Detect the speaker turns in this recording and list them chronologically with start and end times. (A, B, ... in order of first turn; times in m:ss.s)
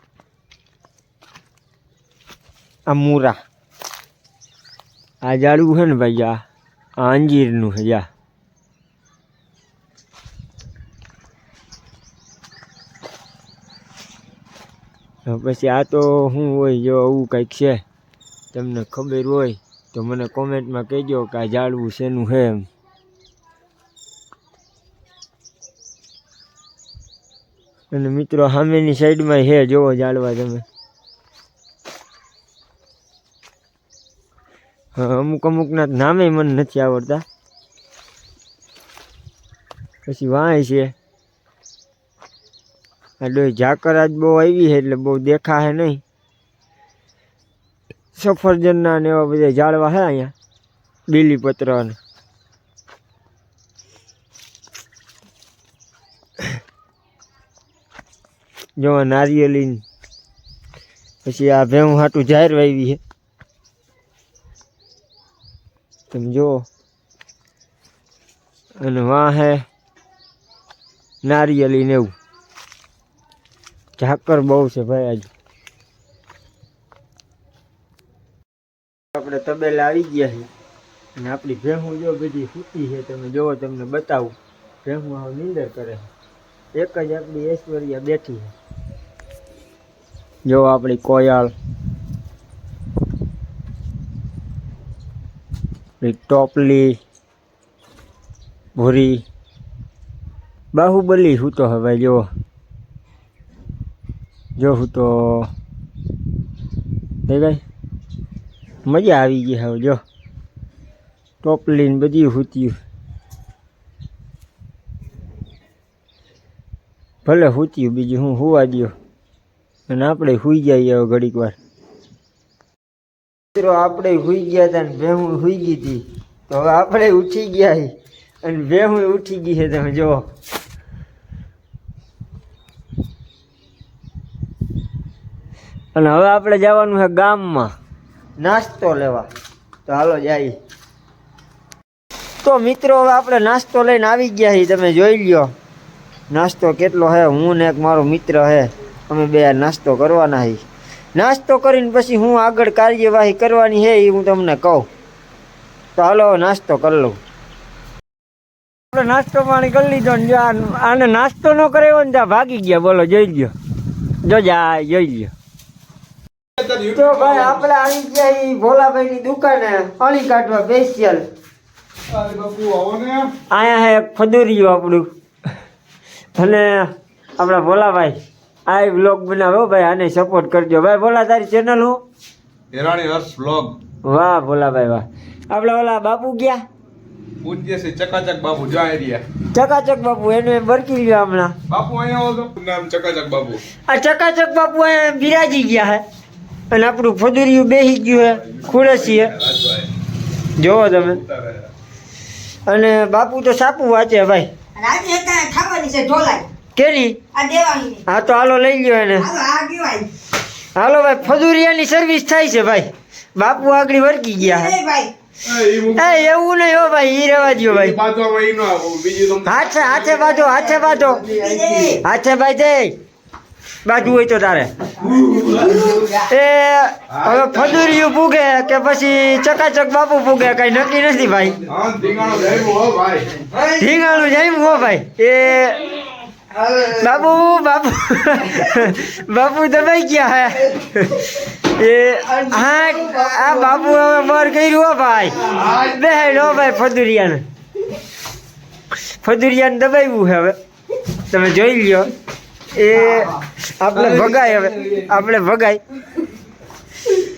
0:02.9-0:03.4 A
0:05.2-0:06.4 A
0:07.0-0:08.1 A
0:15.3-0:17.8 A
0:18.5-0:22.7 A
0:27.9-0:30.6 A
0:35.0-0:37.2 A
0:40.1-0:40.9 A
0:43.2-0:46.0 A
0:48.1-0:50.3 A
0:51.1-0:52.0 A
0:58.8-0:59.8 A
1:01.2-1:03.0 A
1:06.1-1:06.7 A
1:08.8-1:09.6 A
1:11.2-1:12.1 A
1:14.0-1:15.3 A
1:19.2-1:20.5 A
1:21.2-1:26.1 A
1:26.7-1:28.5 A
1:30.5-1:31.5 A
1:36.0-1:37.0 A
1:38.8-1:39.2 A
1:40.7-1:42.3 A
1:44.6-1:45.5 A
1:47.2-1:47.6 A
1:48.8-1:50.0 A
1:51.4-1:52.8 A
1:57.2-1:58.9 A
1:59.9-2:01.6 A
2:03.6-2:10.3 A
2:16.0-2:17.7 A
2:18.4-2:19.3 A
2:19.9-2:20.6 A
2:22.4-2:25.5 A
2:26.3-2:30.6 A
2:31.2-2:34.9 A
2:36.0-2:37.2 A
2:38.9-2:43.5 A
2:44.2-2:45.3 A
2:46.6-2:47.5 B
2:46.8-2:51.2 A
2:52.1-2:53.4 B
2:53.5-2:55.1 A
2:56.4-3:02.0 A
3:02.7-3:03.8 B
3:04.0-3:06.6 A
3:07.4-3:09.2 B
3:09.5-3:11.6 A
3:11.7-3:13.6 B
3:13.9-3:16.0 A
3:16.7-3:19.4 A
3:18.6-3:19.9 B
3:20.6-3:21.2 A
3:21.2-3:21.7 B
3:22.7-3:24.5 A
3:24.8-3:26.5 C
3:26.8-3:27.2 A
3:27.3-3:28.0 C
3:28.1-3:29.3 A
3:29.2-3:30.1 C
3:30.8-3:34.8 A
3:34.4-3:35.1 C
3:35.5-3:36.1 B
3:35.7-3:38.0 A
3:37.7-3:40.2 B
3:39.4-3:43.0 A
3:41.2-3:42.0 C
3:43.8-3:44.7 A
3:45.1-3:45.8 B
3:46.0-3:51.6 A
3:51.6-3:53.5 B
3:53.5-4:07.4 A
4:09.2-4:10.6 A
4:11.2-4:12.1 A
4:12.7-4:15.8 A